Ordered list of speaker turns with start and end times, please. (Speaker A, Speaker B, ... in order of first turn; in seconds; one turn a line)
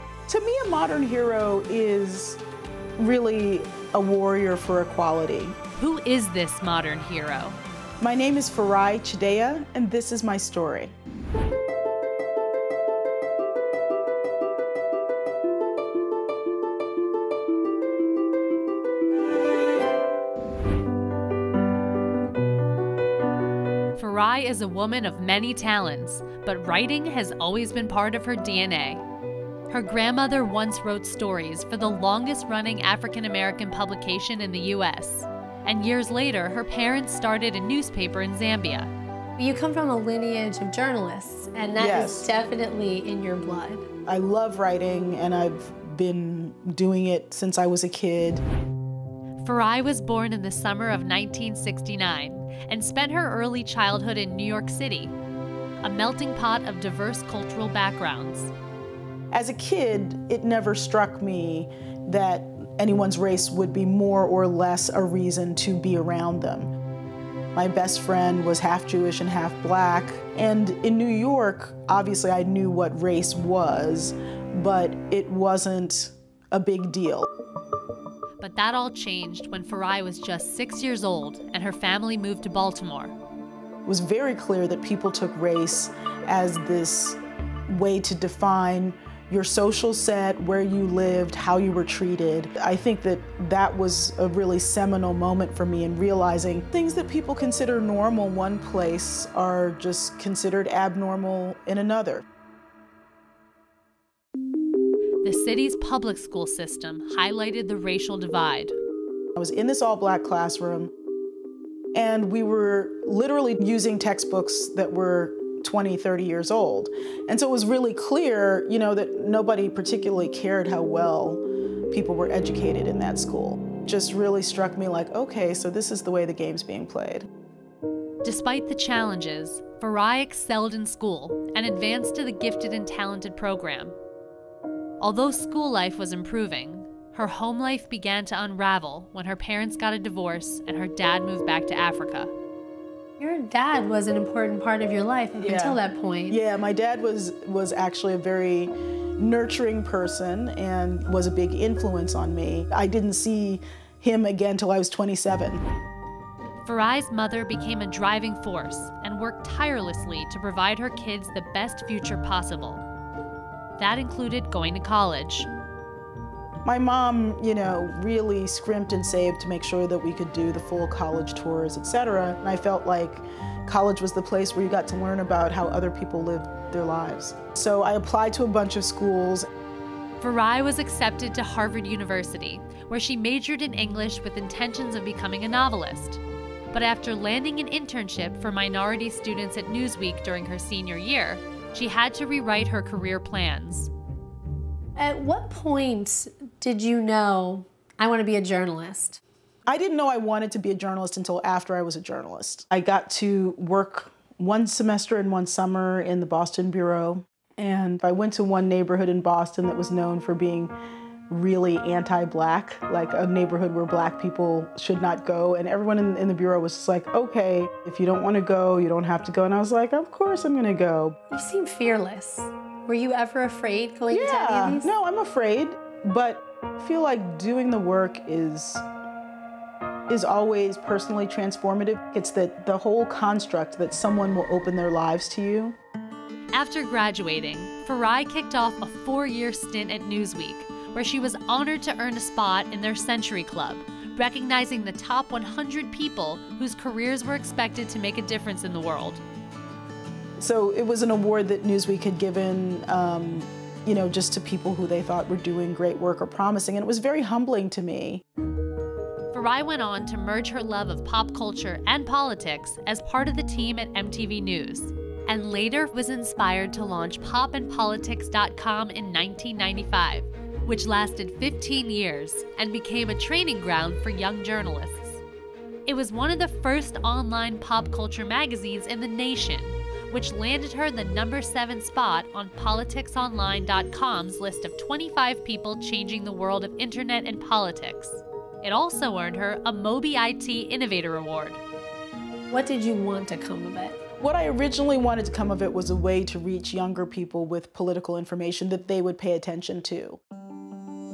Speaker A: 0.3-2.4
Speaker A: 3.0-5.6
Speaker B: 5.8-7.6
Speaker A: 8.0-10.9
Speaker B: 24.0-29.0
Speaker B: 29.7-38.9
Speaker C: 39.4-43.9
Speaker A: 41.8-42.3
Speaker A: 44.1-48.4
Speaker B: 49.4-55.1
Speaker B: 55.8-58.5
Speaker A: 59.3-66.7
Speaker A: 67.5-77.3
Speaker B: 78.4-83.2
Speaker A: 83.8-102.2
Speaker B: 105.2-108.8
Speaker A: 109.4-110.9
Speaker A: 111.9-127.3
Speaker B: 128.2-134.0
Speaker B: 135.0-142.3
Speaker C: 143.2-146.4
Speaker A: 145.4-155.6
Speaker B: 156.6-162.8
Speaker B: 163.8-165.5
Speaker A: 166.7-179.5
Speaker B: 180.2-193.9
Speaker C: 195.0-199.2
Speaker A: 199.7-210.7
Speaker A: 211.3-221.2
Speaker C: 221.3-224.9
Speaker A: 224.1-228.8
Speaker A: 230.1-235.8
Speaker B: 236.5-249.2
Speaker A: 250.4-258.2
Speaker B: 259.3-275.2
Speaker B: 275.9-291.6
Speaker C: 292.5-294.0
Speaker A: 294.2-300.2